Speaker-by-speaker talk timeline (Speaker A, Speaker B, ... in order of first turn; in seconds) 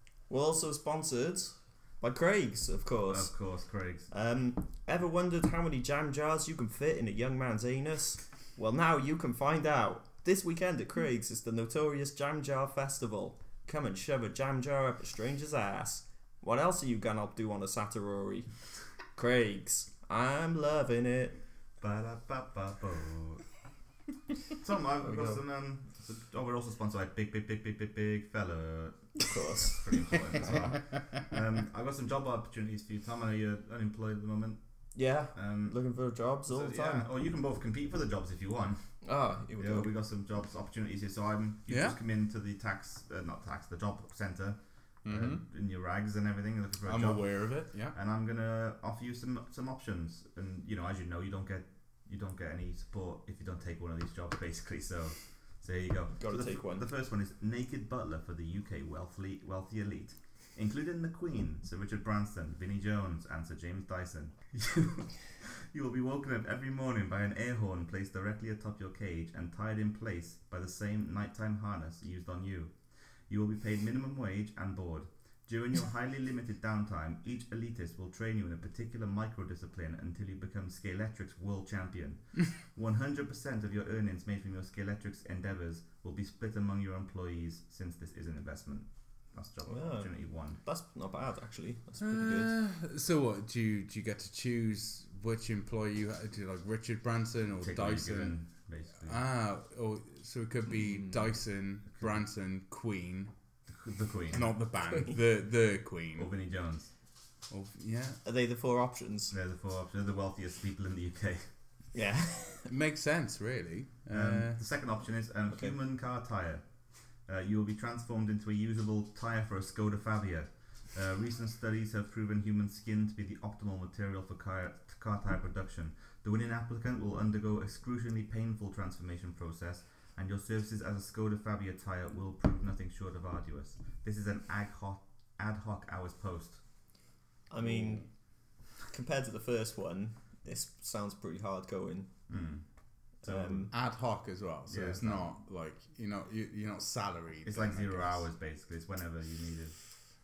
Speaker A: 0.3-3.3, 4.1-18.5, 19.1-21.4, 25.0-25.4, 29.2-29.9, 34.9-37.1, 39.0-39.9, 56.2-56.9, 89.7-92.5, 104.8-105.2, 108.2-109.3, 111.9-112.7, 137.5-138.1, 138.9-142.1, 143.2-143.7
Speaker B: 3.1-4.1, 21.8-23.4, 24.6-34.6, 35.3-35.8, 36.5-39.0, 39.5-72.7, 73.3-90.6, 97.6-99.2, 103.7-104.5, 106.1-106.9, 109.3-111.5, 114.1-116.6, 117.2-136.6, 142.3-142.6, 143.2-143.7, 144.7-145.3, 147.4-149.8
Speaker C: 41.7-42.0, 45.0-45.4, 46.9-47.9, 92.0-98.4, 99.0-103.3, 104.3-106.3, 107.5-108.2, 112.6-114.6, 137.6-138.0, 143.7-148.2